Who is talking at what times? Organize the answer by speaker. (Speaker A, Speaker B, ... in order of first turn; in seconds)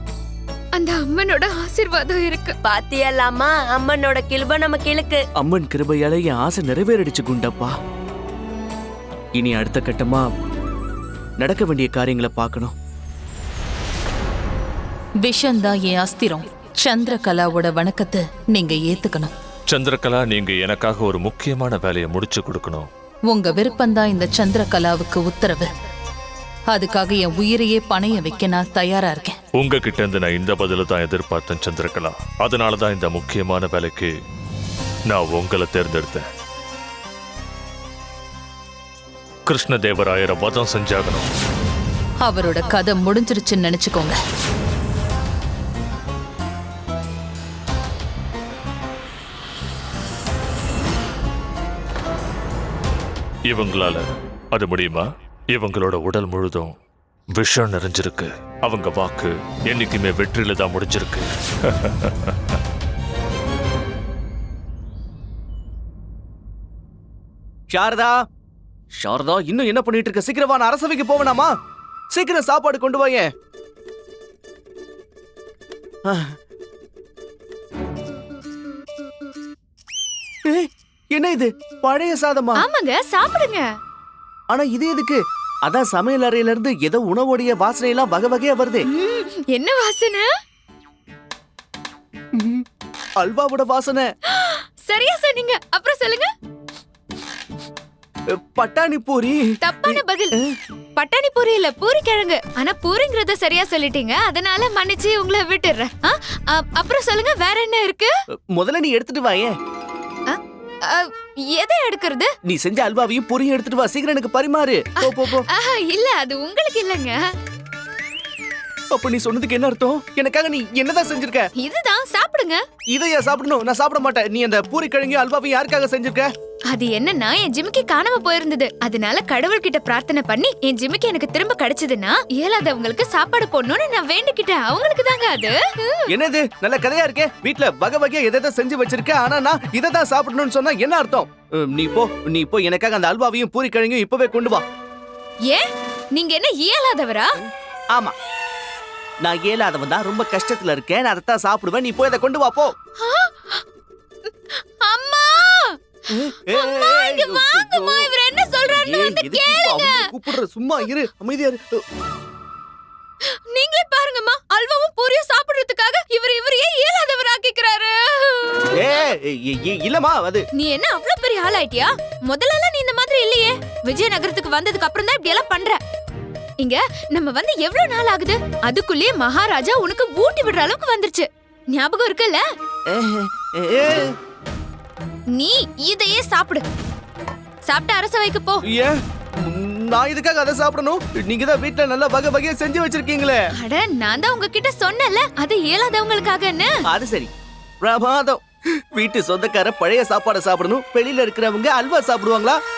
Speaker A: 0.8-2.6, 82.6-83.7, 88.9-90.3, 94.3-96.3, 99.6-100.4, 101.0-108.1, 110.3-112.3, 115.0-117.2, 121.6-122.6, 126.7-136.0, 145.5-147.3, 153.0-153.6, 154.3-155.8, 156.3-160.0, 163.3-168.8, 170.5-175.8, 176.6-182.4, 185.3-186.6, 187.7-188.6, 193.5-196.7
Speaker B: 2.7-5.2
Speaker C: 5.4-7.7, 9.4-10.2, 11.4-12.7, 67.7-68.2, 69.0-71.5, 72.1-73.3, 80.5-82.6, 84.5-88.8, 93.2-94.1, 98.3-100.6, 108.5-109.5, 112.5-115.5, 118.9-121.5, 122.9-126.3, 136.1-144.6, 149.2-152.7, 156.1-158.1, 158.7-161.8, 168.8-170.4, 182.9-184.1, 188.7-193.4, 196.9-197.3, 197.8-198.4, 198.9-202.6
Speaker D: 15.2-19.3, 23.3-25.7, 26.7-29.4, 42.2-44.1
Speaker E: 19.7-22.9, 29.5-34.1, 35.1-36.2, 39.5-41.3, 53.5-56.7, 57.3-62.3